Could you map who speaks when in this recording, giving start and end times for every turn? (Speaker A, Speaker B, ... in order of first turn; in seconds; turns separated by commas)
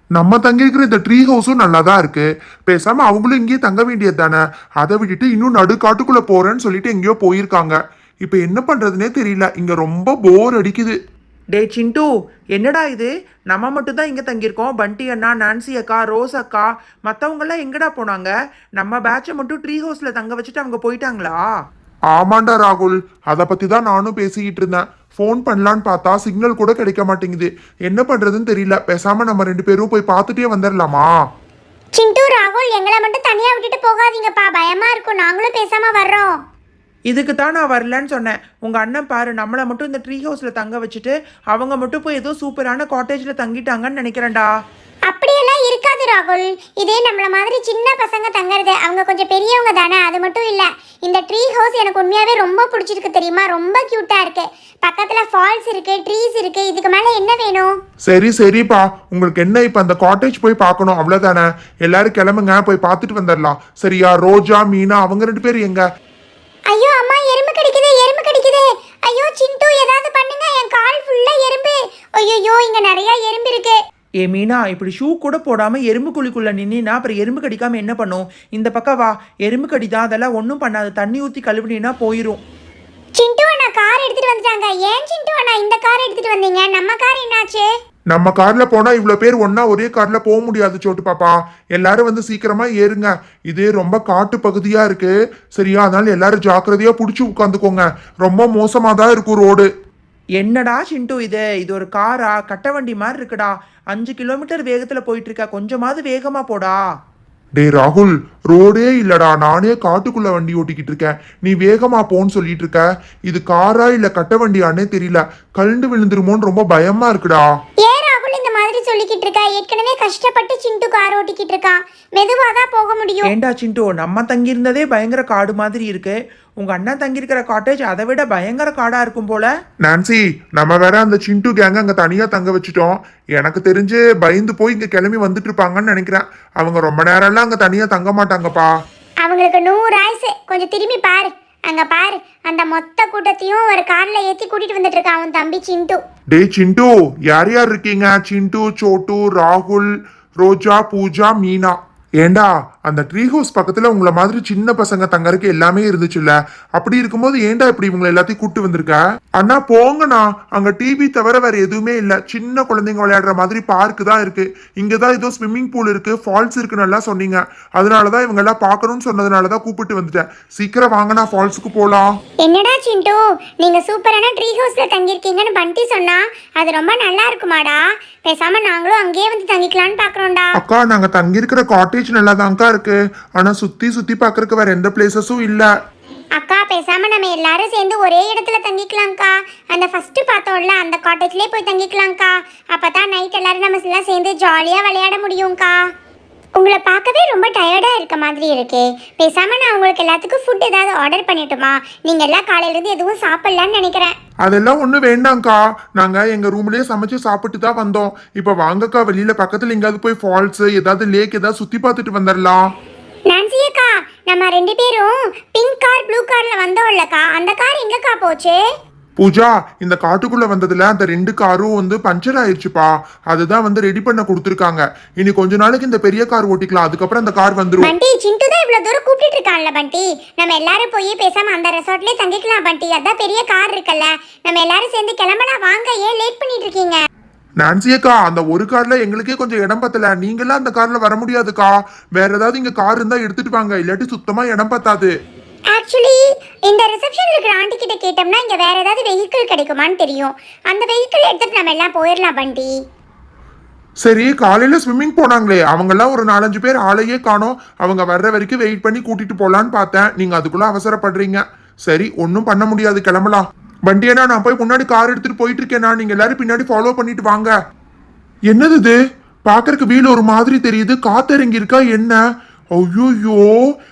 Speaker A: 0.1-11.0, Speaker B: 11.5-21.4, Speaker A: 22.1-31.1, Speaker C: 32.0-36.4, Speaker B: 37.1-44.5, Speaker C: 45.1-57.8, Speaker A: 58.0-65.8, Speaker C: 66.7-73.8, Speaker B: 74.2-82.4, Speaker C: 83.2-87.7, Speaker A: 88.1-99.7, Speaker B: 100.4-106.8, Speaker A: 107.6-117.5, Speaker C: 117.8-123.3, Speaker B: 123.2-129.5, Speaker A: 129.8-138.7, Speaker C: 139.2-146.0, Speaker A: 146.3-172.2, Speaker C: 172.4-180.6, Speaker A: 180.6-185.7, Speaker C: 186.4-195.8, Speaker C: 196.6-204.2, Speaker A: 204.4-212.6, Speaker C: 213.3-218.6, Speaker A: 219.2-227.9, Speaker C: 227.8-237.0, Speaker A: 237.6-245.1, Speaker C: 245.7-252.8, Speaker A: 254.0-267.5, Speaker A: 268.5-272.2, Speaker A: 272.7-273.6